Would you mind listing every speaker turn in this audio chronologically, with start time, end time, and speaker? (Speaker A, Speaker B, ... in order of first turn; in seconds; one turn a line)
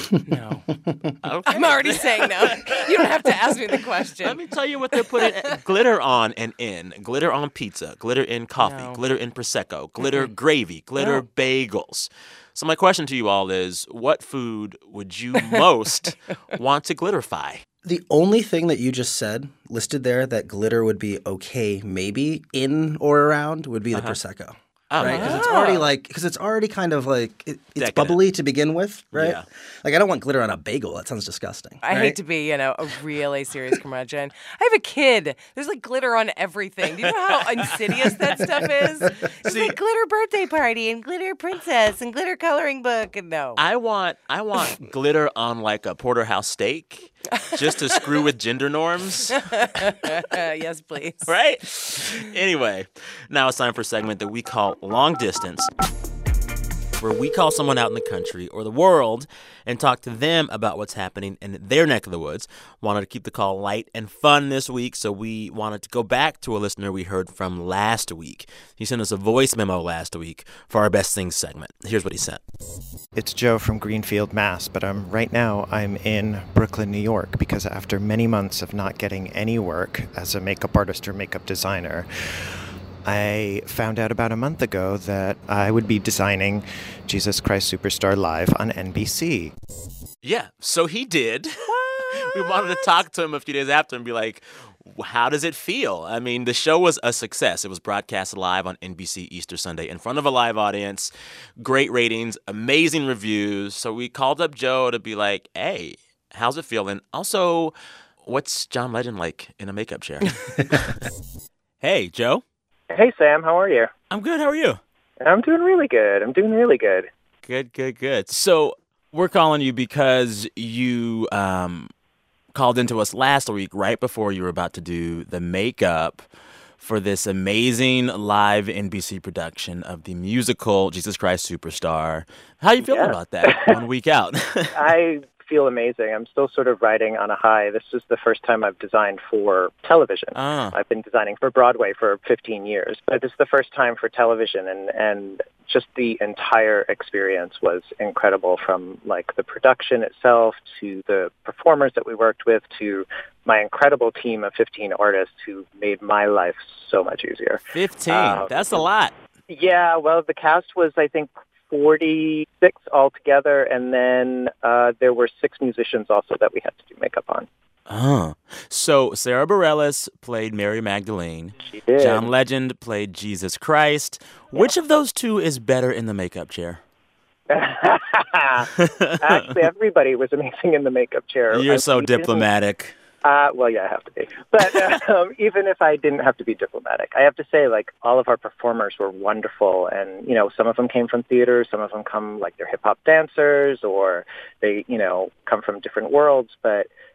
Speaker A: 0.2-0.7
Speaker B: 1.2-2.8
Speaker A: 1.5-4.4
Speaker B: 4.2-17.6
Speaker A: 8.6-9.0
Speaker A: 10.0-10.3
Speaker A: 15.4-15.6
Speaker C: 17.8-32.2
Speaker B: 23.9-24.2
Speaker B: 24.9-25.5
Speaker A: 25.0-25.9
Speaker B: 27.8-28.2
Speaker B: 29.1-29.4
Speaker A: 31.8-43.6
Speaker B: 39.5-39.8
Speaker B: 43.6-49.4
Speaker A: 47.4-48.0
Speaker A: 49.4-51.3
Speaker B: 51.3-55.7
Speaker B: 57.0-72.4
Speaker D: 73.2-82.1
Speaker D: 83.0-89.5
Speaker B: 90.2-111.0
Speaker B: 111.8-112.4
Speaker E: 112.9-113.9
Speaker B: 114.1-114.8
Speaker E: 115.2-117.1
Speaker B: 117.5-121.9
Speaker B: 122.5-126.3
Speaker B: 126.8-134.9
Speaker E: 132.8-133.8
Speaker E: 134.8-158.8
Speaker B: 140.3-140.8
Speaker B: 157.7-159.1
Speaker E: 159.5-167.5
Speaker B: 167.9-176.8
Speaker E: 171.7-172.3
Speaker E: 177.5-182.5
Speaker B: 178.8-179.5
Speaker B: 181.5-182.9
Speaker E: 183.2-196.9